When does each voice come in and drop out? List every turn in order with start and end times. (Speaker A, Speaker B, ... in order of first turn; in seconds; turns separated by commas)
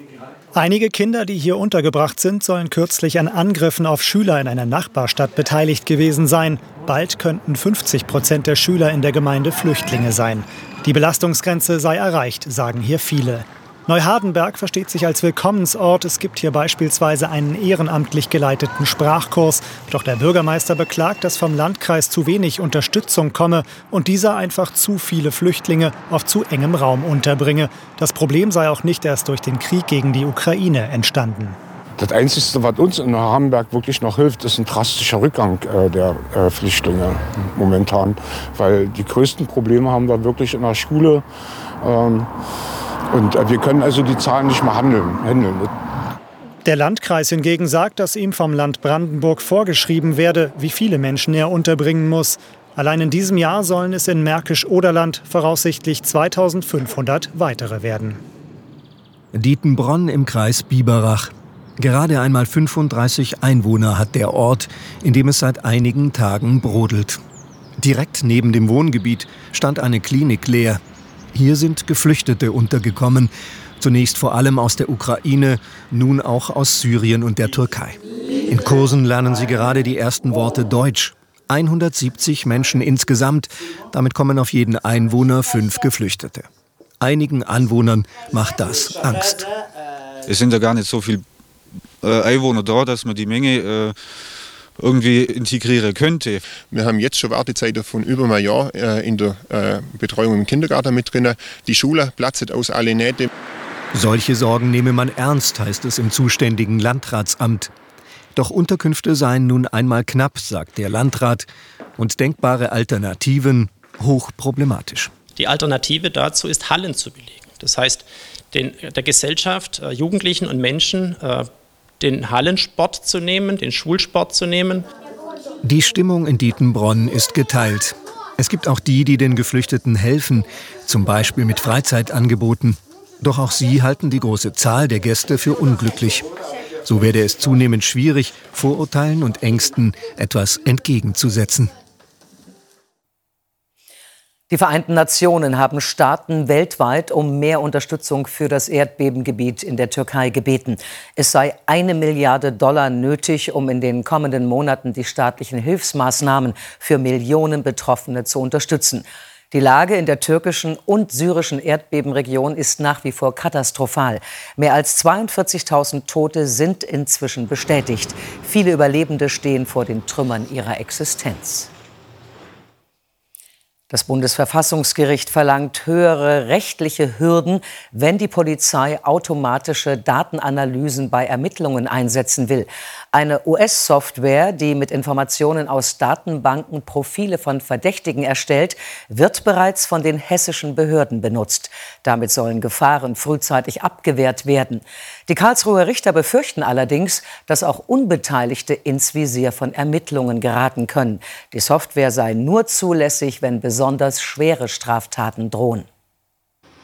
Speaker A: 0.6-31.6, Speaker B: 32.0-41.2, Speaker B: 41.8-42.3, Speaker B: 43.1-45.7, Speaker A: 46.6-58.2, Speaker C: 59.3-67.2, Speaker C: 67.8-70.8, Speaker C: 71.3-86.5, Speaker C: 87.0-89.5, Speaker D: 90.3-91.2, Speaker D: 92.0-94.0, Speaker D: 94.8-96.4, Speaker E: 96.7-103.3, Speaker C: 103.9-107.7, Speaker C: 108.4-111.5, Speaker C: 112.0-115.1, Speaker F: 115.4-121.5, Speaker F: 122.0-124.8, Speaker C: 125.6-136.3, Speaker C: 136.8-141.7, Speaker G: 144.5-171.7, Speaker G: 173.9-205.9